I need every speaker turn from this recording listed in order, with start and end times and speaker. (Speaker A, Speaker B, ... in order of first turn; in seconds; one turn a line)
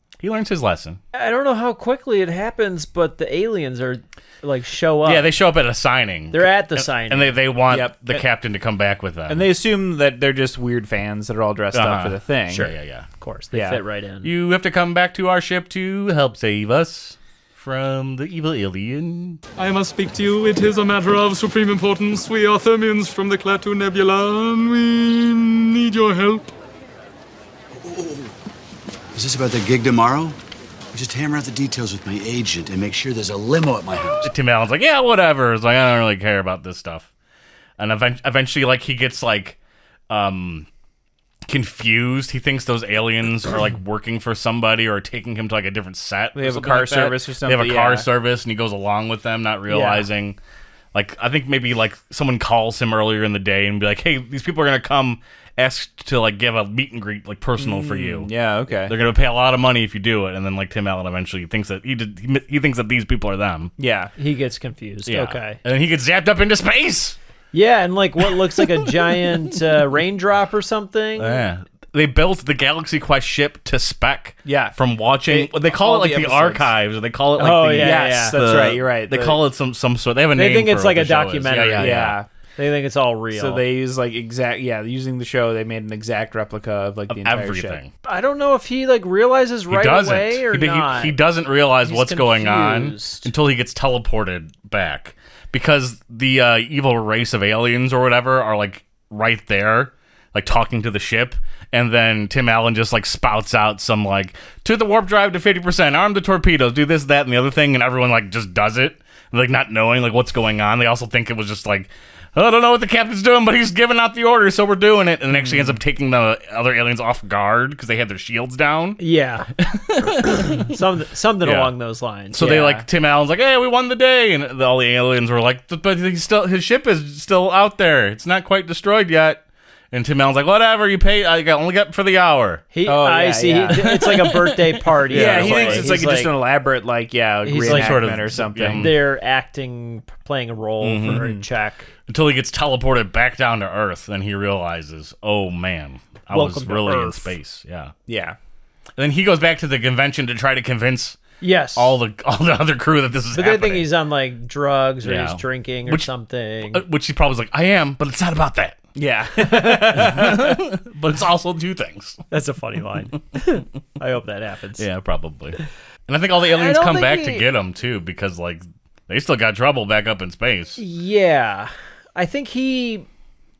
Speaker A: 0.2-1.0
Speaker B: 1.1-5.3
Speaker A: 5.0-9.4
Speaker B: 6.3-7.4
Speaker C: 7.7-8.2
Speaker C: 9.3-12.7
Speaker A: 11.7-13.1
Speaker B: 12.5-14.3
Speaker C: 13.5-13.8
Speaker A: 14.2-19.4
Speaker D: 19.6-26.5
Speaker E: 27.7-28.3
Speaker E: 29.1-30.4
Speaker E: 30.9-34.3
Speaker A: 34.2-37.1
Speaker A: 37.8-39.6
Speaker A: 40.1-40.7
Speaker A: 41.5-50.4
Speaker C: 46.3-48.1
Speaker B: 49.7-50.0
Speaker A: 50.9-63.7
Speaker C: 57.6-58.9
Speaker C: 63.8-64.1
Speaker B: 64.2-65.6
Speaker A: 65.1-67.2
Speaker B: 67.5-71.4
Speaker A: 71.2-82.2
Speaker C: 74.4-76.7
Speaker B: 77.4-78.4
Speaker C: 77.7-79.4
Speaker B: 80.3-83.6
Speaker C: 81.8-82.3
Speaker C: 83.3-87.8
Speaker A: 87.1-87.9
Speaker B: 88.0-91.2
Speaker A: 89.7-119.0
Speaker B: 91.8-93.3
Speaker C: 115.3-115.8
Speaker B: 119.0-119.5
Speaker A: 119.6-120.7
Speaker B: 120.4-122.8
Speaker A: 121.4-121.7
Speaker A: 122.3-132.6
Speaker C: 122.5-122.8
Speaker B: 132.7-136.3
Speaker C: 132.8-134.1
Speaker A: 133.7-135.9
Speaker C: 135.1-138.9
Speaker B: 137.4-138.2
Speaker A: 137.6-139.0
Speaker B: 138.7-141.9
Speaker A: 140.8-141.2
Speaker C: 141.0-141.4
Speaker A: 142.1-147.9
Speaker B: 146.3-147.3
Speaker C: 148.1-148.4
Speaker A: 149.0-151.2
Speaker B: 151.4-152.0
Speaker A: 151.7-153.9
Speaker B: 153.3-156.8
Speaker A: 155.0-156.1
Speaker A: 156.7-158.8
Speaker C: 158.9-160.6
Speaker A: 159.5-162.2
Speaker B: 162.3-164.8
Speaker A: 164.8-170.8
Speaker B: 166.4-167.4
Speaker B: 170.8-173.1